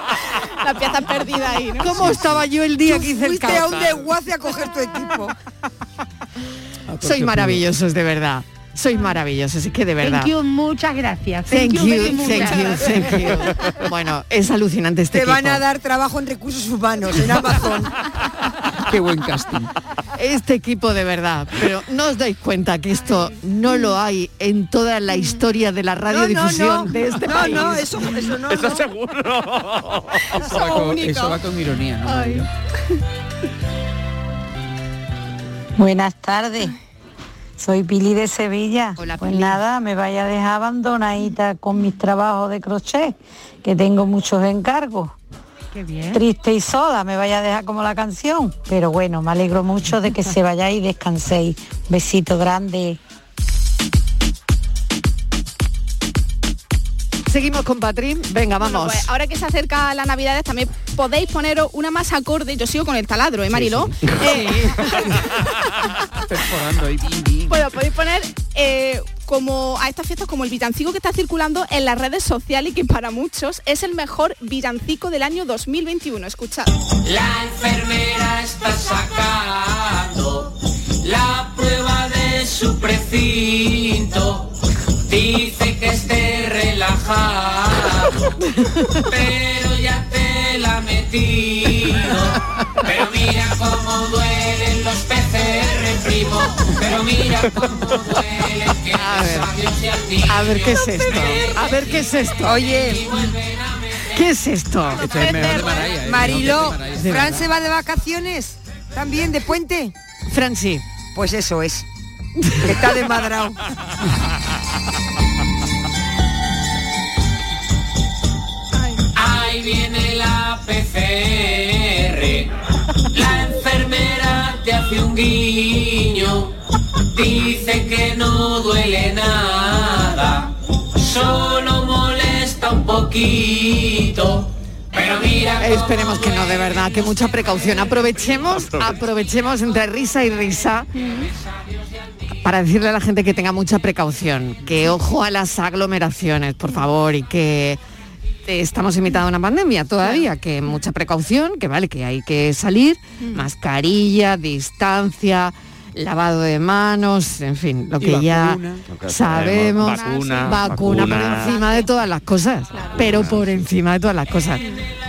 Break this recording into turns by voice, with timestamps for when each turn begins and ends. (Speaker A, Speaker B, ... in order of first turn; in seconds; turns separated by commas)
Speaker A: 0.5-2.2, Speaker B: 1.8-3.9, Speaker C: 2.8-5.3, Speaker D: 3.5-4.0, Speaker B: 7.0-10.3, Speaker E: 7.0-7.5, Speaker F: 10.0-13.2, Speaker B: 11.5-15.6, Speaker C: 15.1-17.9, Speaker B: 20.1-27.9, Speaker C: 26.1-28.8, Speaker D: 28.5-30.6, Speaker A: 30.4-31.4, Speaker G: 35.8-36.7, Speaker G: 37.6-43.1, Speaker F: 39.0-39.5, Speaker G: 43.6-45.1, Speaker F: 45.7-46.2, Speaker G: 46.2-52.9, Speaker B: 57.3-59.1, Speaker A: 58.6-65.1, Speaker B: 64.2-64.8, Speaker A: 67.5-76.7, Speaker H: 77.0-84.5, Speaker H: 85.1-88.4, Speaker B: 88.6-88.9, Speaker H: 89.0-104.2, Speaker B: 98.9-99.5, Speaker B: 100.2-102.6, Speaker C: 102.4-103.0, Speaker B: 104.1-105.1, Speaker E: 105.2-107.2, Speaker C: 105.5-109.9, Speaker B: 106.9-107.4, Speaker B: 110.3-110.8, Speaker C: 111.1-111.8, Speaker C: 112.6-113.6, Speaker H: 119.1-122.5, Speaker H: 123.1-126.5, Speaker H: 127.1-136.9, Speaker B: 135.6-140.9, Speaker B: 142.4-147.8, Speaker B: 148.4-164.7, Speaker A: 153.2-153.5, Speaker E: 158.0-158.6, Speaker D: 158.9-161.6, Speaker A: 159.8-160.7, Speaker A: 161.3-161.9, Speaker A: 162.7-163.1, Speaker D: 163.0-163.4